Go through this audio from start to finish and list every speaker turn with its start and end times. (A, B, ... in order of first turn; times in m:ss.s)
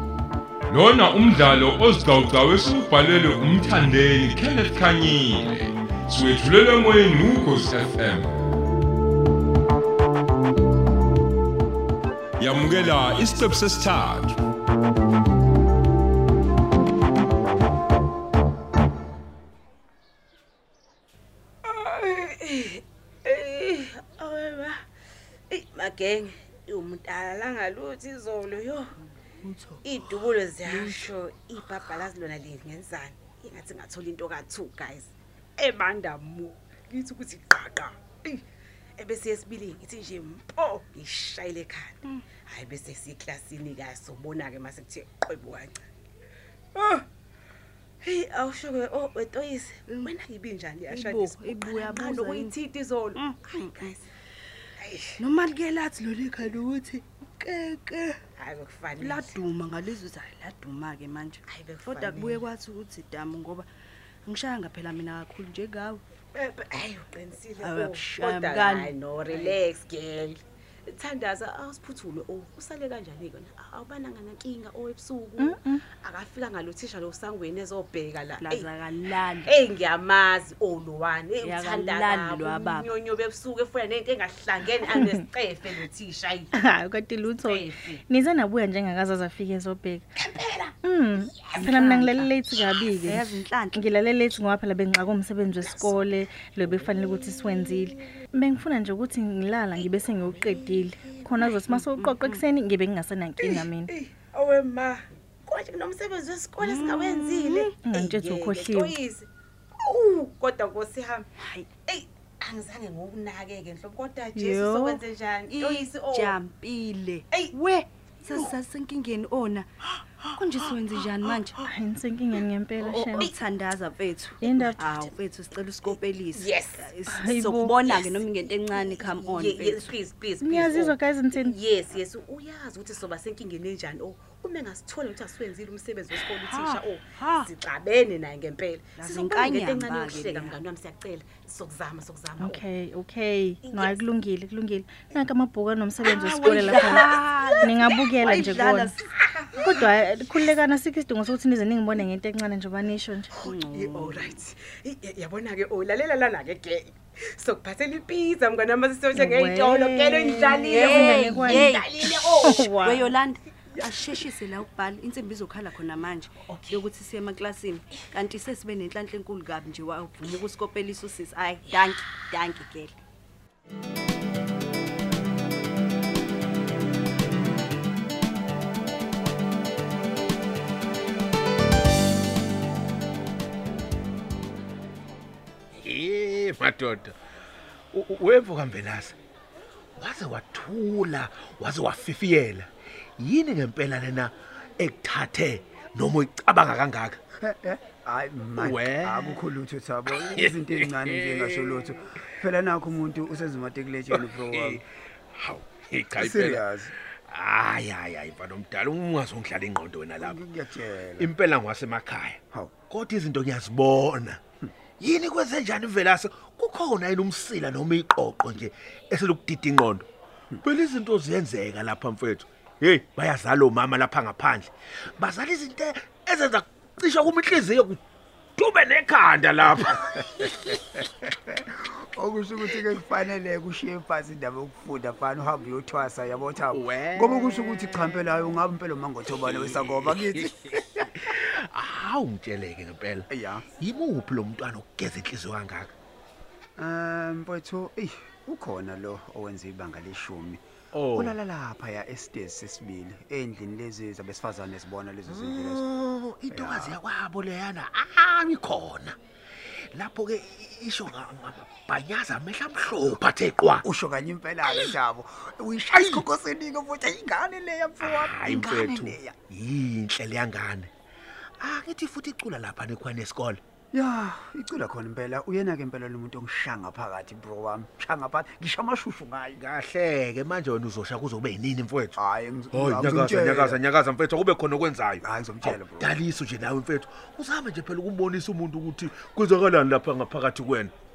0:00.7-0:08.3 A
0:12.4-0:14.4 A
0:21.6-0:24.8 B
0:25.5-0:28.9 B
0:29.4-0:29.8 C
0:29.8-0:38.4 B
0:30.6-0:31.1 C
0:39.0-0:45.7 B
0:46.7-0:47.0 B
0:48.0-0:54.0 B
0:49.9-0:50.1 C
0:50.9-0:52.6 C
0:53.1-0:54.0 C
0:54.8-0:55.1 B
0:55.2-0:58.2 C
0:58.4-0:59.4 B
0:59.0-1:03.7 C
1:01.5-1:02.4 B
1:04.3-1:06.0 C
1:06.3-1:18.7 B
1:07.6-1:09.6 C
1:15.4-1:15.8 D
1:18.4-1:19.5 C
1:19.4-1:26.5 B
1:21.4-1:22.9 C
1:26.5-1:30.0 D
1:27.4-1:28.0 B
1:30.2-1:31.6 B
1:30.8-1:43.9 D
1:31.6-1:32.3 C
1:33.0-1:33.9 C
1:35.7-1:35.9 B
1:36.6-1:37.5 B
1:39.8-1:41.8 B
1:41.9-1:42.4 C
1:43.4-1:49.3 B
1:46.6-1:47.8 C
1:47.8-1:48.9 D
1:49.8-1:51.3 B
1:51.4-1:51.7 C
1:51.9-1:56.4 B
1:54.3-1:55.0 D
1:55.5-1:59.7 C
2:00.3-2:01.6 C
2:01.0-2:01.4 B
2:01.6-2:03.3 D
2:02.8-2:09.9 C
2:04.4-2:04.8 D
2:04.6-2:05.1 B
2:05.8-2:06.9 B
2:07.1-2:07.8 D
2:07.8-2:22.6 B
2:10.4-2:11.6 D
2:16.3-2:17.5 C
2:19.0-2:20.6 C
2:22.4-2:29.0 D
2:23.6-2:24.0 B
2:26.0-2:29.8 B
2:26.1-2:29.0 C
2:29.6-2:33.3 D
2:33.4-2:42.8 B
2:33.5-2:34.3 C
2:39.1-2:43.1 D
2:40.7-2:53.0 C
2:43.8-2:44.2 B
2:46.5-2:46.8 B
3:05.7-3:07.2 E
3:07.9-3:09.1 E
3:10.0-3:17.2 E
3:17.4-3:24.8 F
3:18.6-3:19.4 E
3:20.1-3:22.3 E
3:24.1-3:24.8 E
3:25.4-3:26.7 E
3:26.1-3:26.9 F
3:27.3-3:30.4 E
3:30.2-3:31.3 F
3:31.2-3:34.4 E
3:32.5-3:32.8 F
3:35.0-3:40.1 E
3:40.6-3:48.0 E
3:48.6-3:50.7 E
3:49.9-4:00.8 F
3:56.7-3:58.2 E
3:59.4-4:05.9 E
4:03.3-4:03.6 F
4:06.8-4:10.6 F
4:10.9-4:11.4 E
4:11.1-4:15.8 F
4:15.2-4:19.2 E
4:16.5-4:17.0 F
4:19.9-4:23.8 E
4:23.8-4:29.4 F
4:24.7-4:25.0 E
4:25.9-4:26.2 E
4:28.0-4:30.9 E
4:31.6-4:33.6 E
4:33.9-4:39.6 F
4:39.5-4:42.2 E
4:42.2-4:43.8 F
4:42.7-4:50.9 E
4:45.2-4:46.2 F